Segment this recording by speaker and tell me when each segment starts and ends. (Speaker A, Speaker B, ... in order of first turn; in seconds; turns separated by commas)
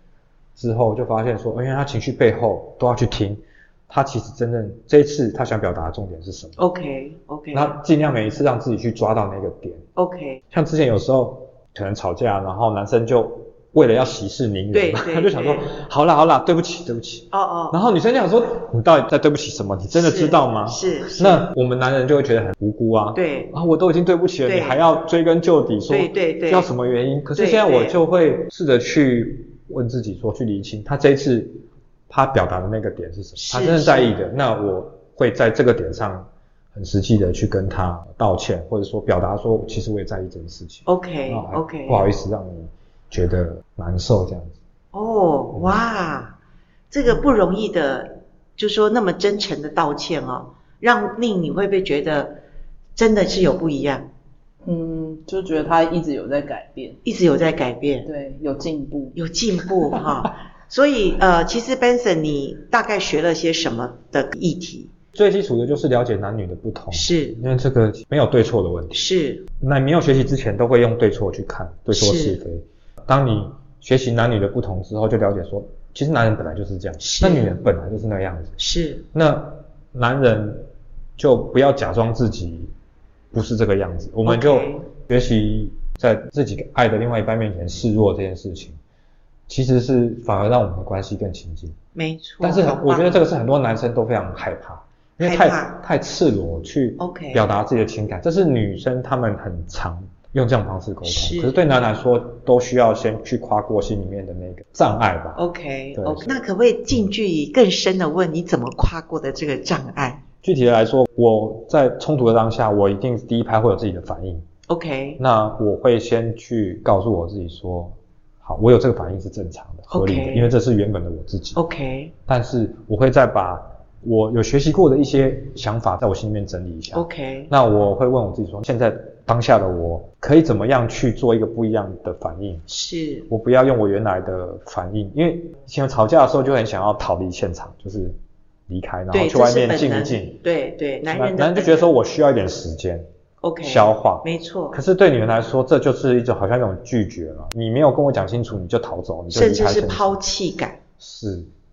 Speaker A: 0.6-6.6, Speaker B: 6.6-7.8, Speaker A: 7.5-9.8, Speaker B: 9.9-10.4, Speaker A: 10.5-44.6, Speaker B: 14.7-15.7, Speaker B: 17.3-17.8, Speaker B: 19.9-21.4, Speaker B: 23.1-23.5, Speaker B: 24.4-24.8, Speaker B: 25.9-26.7, Speaker B: 27.3-28.0, Speaker B: 33.4-34.1, Speaker B: 40.9-42.1, Speaker B: 44.9-46.4, Speaker B: 46.9-52.4, Speaker B: 53.0-54.1, Speaker C: 54.6-57.0, Speaker B: 57.0-58.1, Speaker C: 58.0-59.2, Speaker B: 59.1-64.9, Speaker A: 65.1-69.0, Speaker B: 66.9-67.3, Speaker B: 68.9-69.5, Speaker A: 69.6-78.5, Speaker B: 71.9-72.4, Speaker B: 77.0-77.5, Speaker B: 78.6-79.0, Speaker A: 79.1-82.7, Speaker A: 83.3-88.8, Speaker B: 84.2-84.9, Speaker A: 89.5-91.8, Speaker B: 91.9-93.2, Speaker A: 92.4-105.4, Speaker B: 95.2-95.8, Speaker B: 97.0-97.4, Speaker B: 101.0-101.6, Speaker B: 105.3-110.2, Speaker A: 106.0-106.3, Speaker A: 110.4-114.4, Speaker B: 114.7-115.2, Speaker A: 115.2-121.6, Speaker B: 119.9-120.5, Speaker B: 121.5-122.1, Speaker A: 122.3-132.6, Speaker B: 126.9-127.5, Speaker B: 132.7-133.3, Speaker A: 133.3-138.2, Speaker A: 138.7-140.4, Speaker B: 139.1-141.9, Speaker A: 141.1-143.1, Speaker B: 143.4-144.8, Speaker A: 143.6-150.2, Speaker B: 149.3-150.8, Speaker A: 151.0-151.5